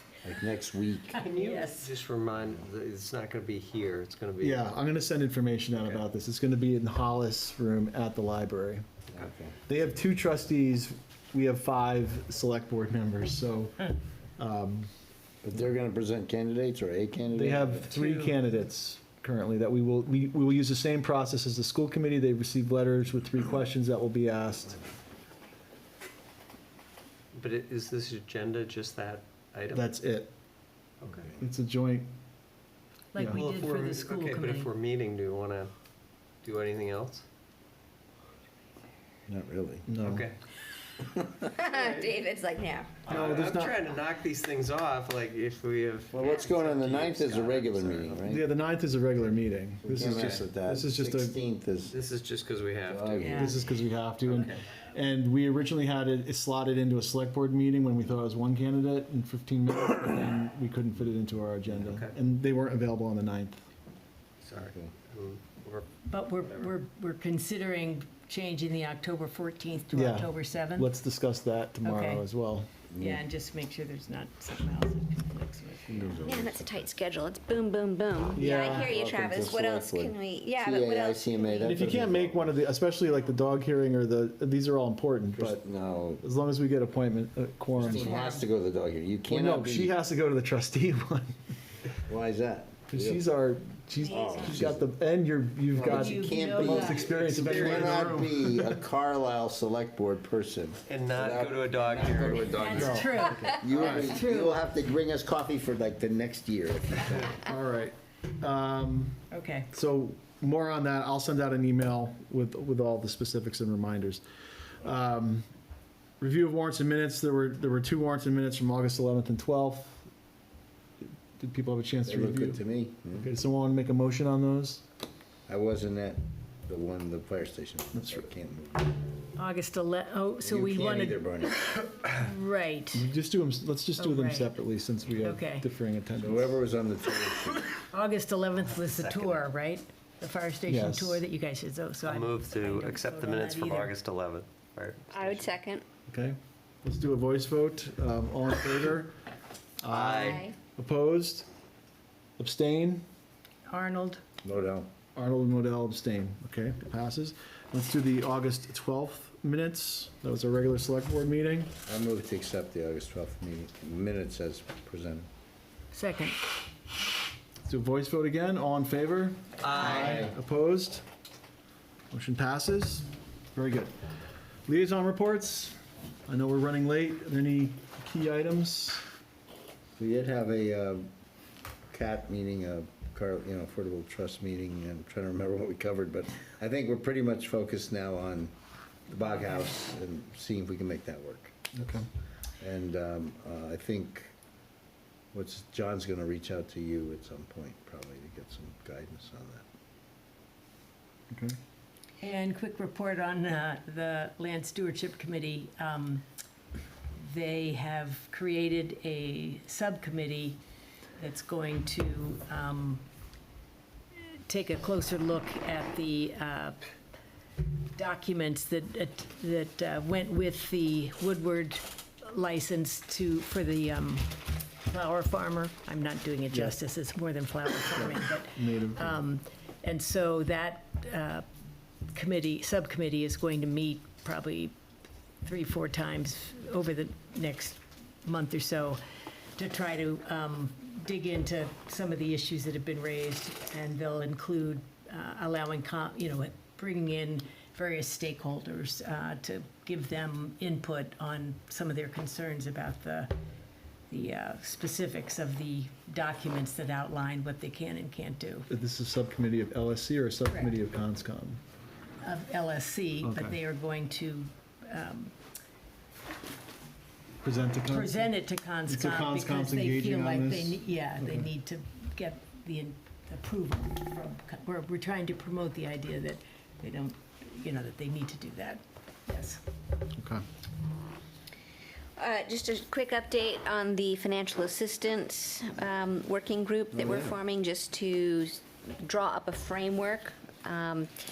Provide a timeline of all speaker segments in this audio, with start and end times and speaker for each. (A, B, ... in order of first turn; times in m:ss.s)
0:00.2-0:01.2 A
0:01.1-0:01.9 B
0:01.2-0:04.6 C
0:04.4-0:08.8 D
0:05.7-0:06.0 C
0:09.1-0:09.6 A
0:09.7-0:14.9 D
0:15.4-0:17.9 A
0:17.3-0:24.8 D
0:27.3-0:29.9 C
0:29.7-0:30.3 D
0:31.0-0:31.4 A
0:31.4-0:32.1 D
0:33.1-0:34.7 B
0:33.2-0:33.4 D
0:33.3-0:35.7 C
0:36.4-0:37.2 C
0:39.3-0:39.8 A
0:39.8-0:40.2 D
0:40.0-0:40.4 C
0:41.0-0:41.4 A
0:41.4-0:43.0 E
0:43.0-0:48.2 C
0:43.1-0:43.8 D
0:46.1-0:48.4 A
0:48.2-0:51.4 D
0:49.8-0:52.0 A
0:50.0-0:50.5 C
0:51.9-0:53.6 C
0:52.8-0:53.5 A
0:53.2-0:53.6 B
0:53.3-1:03.6 D
0:54.2-0:54.6 C
1:01.8-1:02.1 C
1:04.4-1:06.7 C
1:04.6-1:04.9 A
1:06.1-1:10.9 B
1:09.9-1:12.7 D
1:11.8-1:12.2 B
1:12.9-1:13.2 A
1:13.0-1:16.2 B
1:15.9-1:16.9 A
1:16.2-1:21.8 E
1:18.3-1:18.9 D
1:18.7-1:22.6 A
1:21.6-1:25.6 D
1:25.3-1:26.2 A
1:26.2-1:28.2 D
1:27.8-1:29.9 A
1:27.9-1:28.4 B
1:29.3-1:31.4 D
1:32.1-1:33.2 A
1:32.9-1:38.8 D
1:34.1-1:34.9 A
1:34.1-1:34.4 E
1:35.7-1:47.4 A
1:35.9-1:37.9 B
1:37.1-1:38.2 C
1:40.9-1:43.0 C
1:42.5-1:44.6 B
1:42.7-1:44.2 D
1:47.2-1:49.2 D
1:49.3-1:49.7 B
1:49.7-1:54.2 D
1:54.8-1:55.4 D
1:56.2-2:00.1 D
2:01.4-2:02.6 D
2:02.0-2:03.3 A
2:03.2-2:04.8 D
2:05.5-2:09.0 A
2:07.9-2:08.3 D
2:09.3-2:13.1 B
2:10.4-2:11.6 A
2:12.9-2:16.6 D
2:14.0-2:14.5 B
2:15.2-2:15.6 B
2:16.2-2:17.7 A
2:17.7-2:23.9 B
2:18.6-2:19.5 C
2:20.7-2:21.2 D
2:22.0-2:25.4 C
2:25.1-2:25.8 E
2:26.1-2:29.1 D
2:29.8-2:31.5 D
2:29.8-2:30.4 C
2:30.2-2:30.5 E
2:32.4-2:33.0 D
2:33.7-2:34.2 B
2:34.4-2:34.9 A
2:35.1-2:41.7 D
2:41.9-2:45.3 A
2:45.9-2:46.4 B
2:47.6-2:51.0 D
2:49.6-2:50.3 C
2:49.9-2:50.3 A
2:52.1-2:53.9 D
2:54.7-2:55.8 D
2:56.3-2:59.0 D
3:00.0-3:01.1 A
3:01.9-3:08.5 A
3:09.1-3:11.6 A
3:11.7-3:12.0 D
3:12.6-3:14.3 A
3:15.3-3:19.6 A
3:21.3-3:21.6 D
3:22.2-3:26.2 B
3:27.1-3:30.6 B
3:31.2-3:33.0 B
3:34.1-3:36.8 B
3:37.9-3:51.4 B
3:47.9-3:49.2 D
3:52.1-3:54.7 B
3:55.4-3:59.0 B
3:59.6-4:13.3 B
4:14.1-4:18.7 B
4:18.7-4:21.6 D
4:22.2-4:25.4 B
4:23.2-4:23.6 D
4:27.4-4:28.3 D
4:27.9-4:39.6 B
4:28.9-4:31.5 D
4:40.2-4:40.4 D
4:42.2-4:51.1 E
4:46.9-4:47.4 A